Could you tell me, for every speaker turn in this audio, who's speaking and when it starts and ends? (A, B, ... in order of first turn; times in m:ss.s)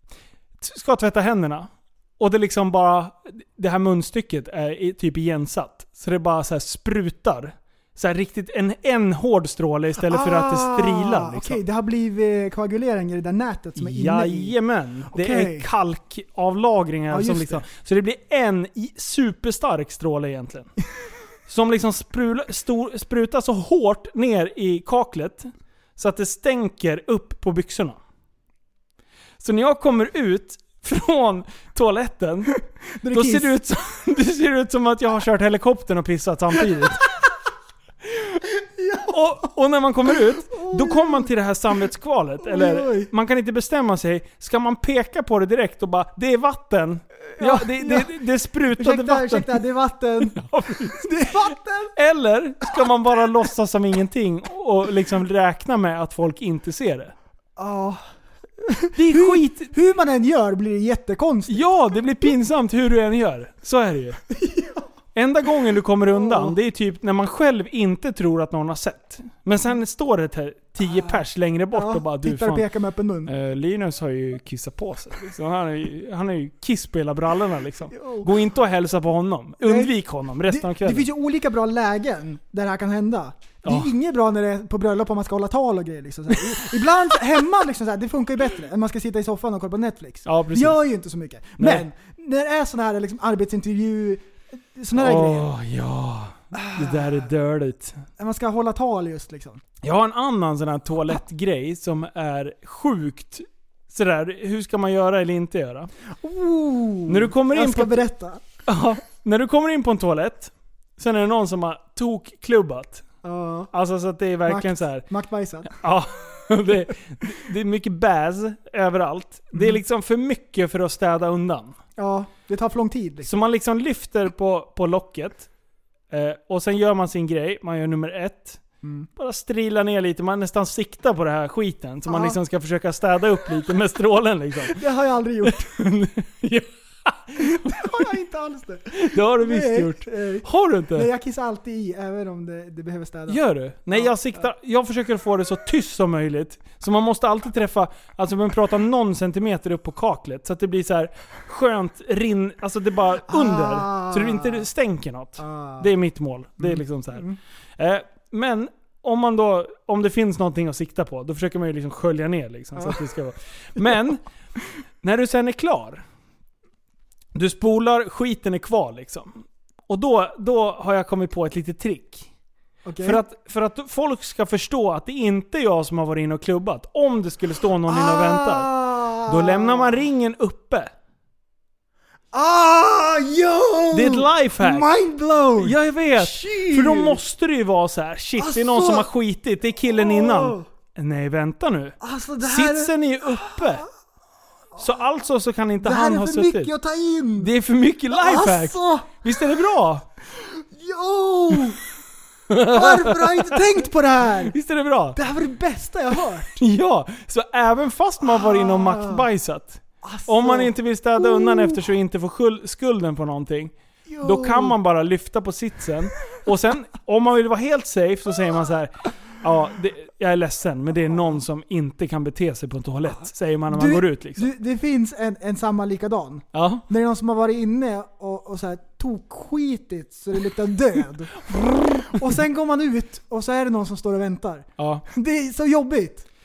0:00.6-0:11.6 A
0:10.0-0:14.6 B
0:13.8-0:20.7 A
0:15.1-0:15.7 B
0:17.1-0:17.6 B
0:21.5-0:28.0 A
0:29.4-0:32.5 A
0:33.0-0:33.6 B
0:33.1-0:37.0 A
0:38.6-0:39.2 B
0:39.1-0:49.6 A
0:40.1-0:41.3 B
0:42.4-0:43.1 B
0:47.4-0:48.1 B
0:48.8-0:50.4 B
0:50.3-0:57.1 A
0:50.9-0:51.9 B
0:57.6-0:58.0 B
0:58.6-1:01.6 B
0:59.0-0:59.7 A
1:01.5-1:04.2 A
1:04.3-1:04.9 B
1:05.1-1:12.6 A
1:06.1-1:06.6 B
1:11.7-1:13.3 B
1:13.3-1:21.1 A
1:17.9-1:18.3 B
1:19.6-1:19.9 B
1:20.5-1:35.5 B
1:23.6-1:23.9 A
1:30.3-1:30.8 A
1:31.6-1:31.9 A
1:35.0-1:38.0 A
1:36.6-1:37.2 B
1:38.2-1:39.6 B
1:39.8-1:45.9 A
1:46.2-1:48.4 B
1:47.1-1:48.1 A
1:48.6-1:53.0 A
1:53.2-1:53.7 B
1:53.7-1:55.0 A
1:54.4-1:55.7 B
1:55.7-2:01.7 A
2:02.0-2:03.3 B
2:03.2-2:05.5 A
2:06.1-2:08.6 A
2:08.8-2:09.1 B
2:09.2-2:14.8 A
2:12.1-2:12.4 B
2:14.7-2:15.7 B
2:15.4-2:18.2 A
2:17.4-2:23.4 B
2:18.9-2:21.1 A
2:23.3-2:37.3 A
2:33.3-2:34.7 B
2:35.4-2:35.9 B
2:36.6-2:37.4 B
2:37.8-2:44.2 A
2:45.0-2:46.0 A
2:47.3-2:52.3 A
2:52.8-2:53.2 B
2:53.0-3:00.9 A
2:57.9-3:00.0 B
3:02.3-3:07.2 B
3:03.9-3:04.9 A
3:05.6-3:13.8 A
3:08.4-3:09.1 B
3:10.0-3:10.6 B
3:12.0-3:13.8 B
3:14.8-3:16.7 A
3:15.8-3:17.5 B
3:17.4-3:20.1 A
3:18.1-3:19.2 B
3:20.3-3:21.8 B
3:22.5-3:25.2 A
3:22.5-3:24.6 B
3:25.1-3:26.6 B
3:26.5-3:44.5 A
3:28.3-3:29.3 B
3:30.0-3:31.8 B
3:34.1-3:34.8 B
3:43.7-3:56.2 B
3:46.5-3:46.8 A
3:51.5-3:52.2 A
3:54.8-3:55.0 A